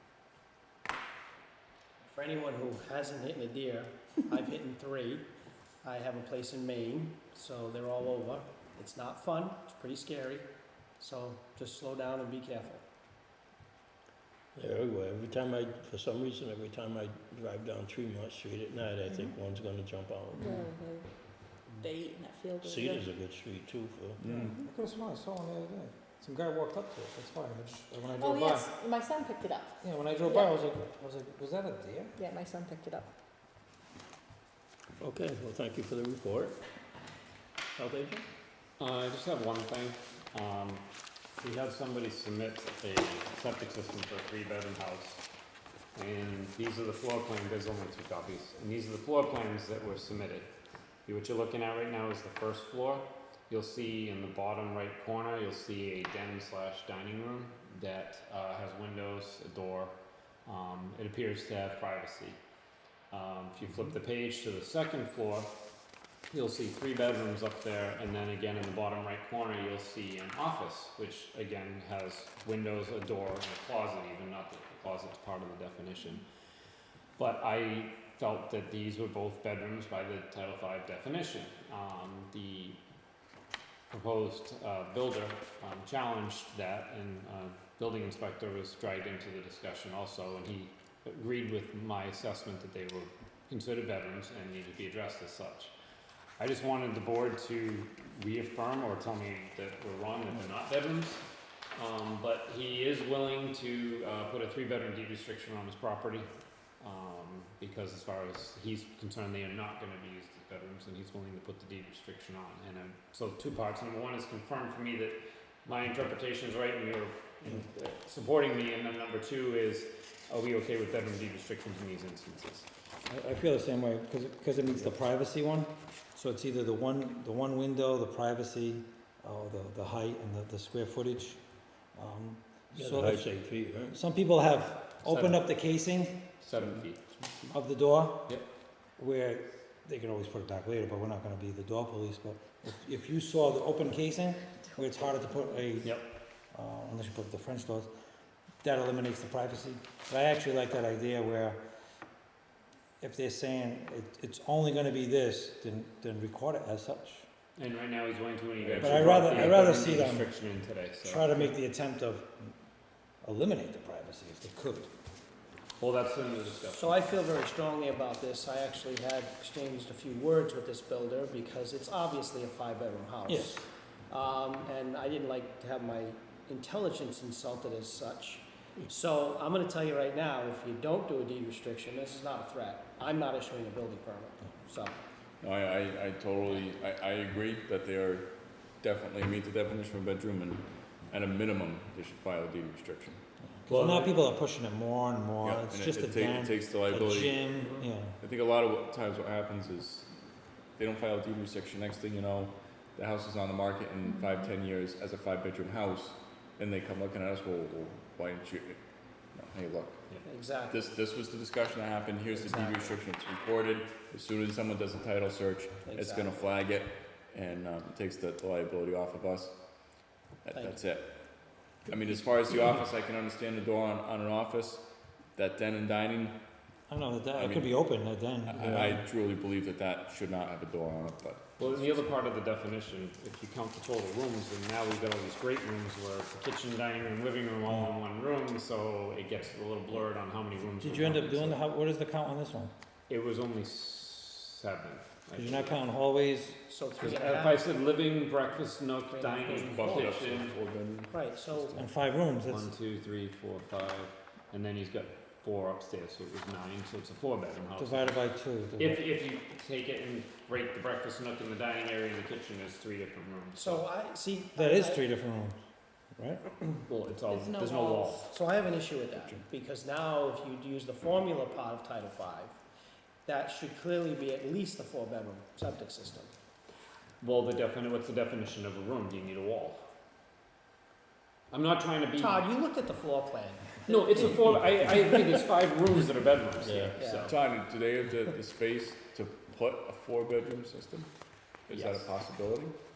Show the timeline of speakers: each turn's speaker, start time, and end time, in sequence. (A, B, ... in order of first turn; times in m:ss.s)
0:02.1-0:05.2 A
0:05.8-0:10.4 A
0:11.0-0:12.8 A
0:14.5-0:20.7 B
0:20.4-0:21.1 C
0:21.7-0:23.0 C
0:22.6-0:24.4 B
0:24.2-0:24.6 D
0:24.4-0:28.7 E
0:28.2-0:30.5 C
0:29.8-0:32.2 E
0:32.2-0:33.1 C
0:35.0-0:36.6 B
0:37.8-0:38.2 B
0:38.8-0:40.8 F
0:41.4-0:45.2 F
0:45.9-0:50.5 F
0:51.0-0:59.9 F
1:00.4-1:02.4 F
1:03.1-1:05.5 F
1:06.3-1:16.2 F
1:17.2-1:22.8 F
1:23.9-1:35.7 F
1:36.4-1:41.2 F
1:41.7-1:46.3 F
1:46.8-2:02.7 F
2:03.1-2:11.4 E
2:11.9-2:13.3 E
2:12.7-2:14.0 B
2:13.9-2:16.3 E
2:15.0-2:15.5 F
2:16.4-2:17.1 F
2:17.5-2:18.4 E
2:19.0-2:26.0 E
2:25.8-2:26.1 F
2:26.5-2:27.9 E
2:28.6-2:31.6 E
2:33.0-2:37.3 E
2:37.6-2:41.5 F
2:38.6-2:39.6 D
2:38.8-2:40.3 E
2:41.0-2:42.5 E
2:43.2-2:44.9 E
2:45.8-2:46.9 F
2:46.7-3:05.0 A
2:53.3-2:53.6 E
3:05.4-3:13.2 D
3:13.5-3:18.2 E
3:13.7-3:14.1 F
3:15.4-3:17.4 D
3:18.2-3:20.2 D
3:20.8-3:28.8 D
3:24.0-3:24.5 C
3:29.3-3:30.0 D
3:30.2-3:30.9 A
3:30.7-3:39.6 D
3:32.3-3:33.0 A
3:35.8-3:36.5 A
3:40.4-3:46.4 D
3:40.5-3:40.8 A
3:46.9-3:49.0 E
3:47.4-3:47.7 D
3:48.5-3:52.1 D
3:51.6-4:01.6 F
4:00.8-4:02.7 E
4:03.1-4:05.8 F
4:05.4-4:06.6 E
4:06.7-4:07.6 A
4:07.0-4:10.5 F
4:09.1-4:10.2 A
4:09.4-4:11.3 D
4:11.1-4:11.8 A
4:11.7-4:12.7 E
4:12.4-4:18.2 F
4:17.8-4:19.0 E
4:18.8-4:23.8 F
4:23.5-4:25.1 A
4:24.5-4:25.6 E
4:26.1-4:26.8 E
4:26.8-4:28.3 F
4:27.3-4:28.2 C
4:28.3-4:32.6 A
4:33.2-4:36.3 A
4:37.2-4:39.8 F
4:41.5-4:42.4 F
4:42.2-4:44.4 A
4:43.9-4:47.3 F
4:46.6-4:47.0 B
4:47.0-4:47.4 A
4:47.3-4:51.1 D
4:51.6-4:52.8 D
4:51.7-4:52.1 F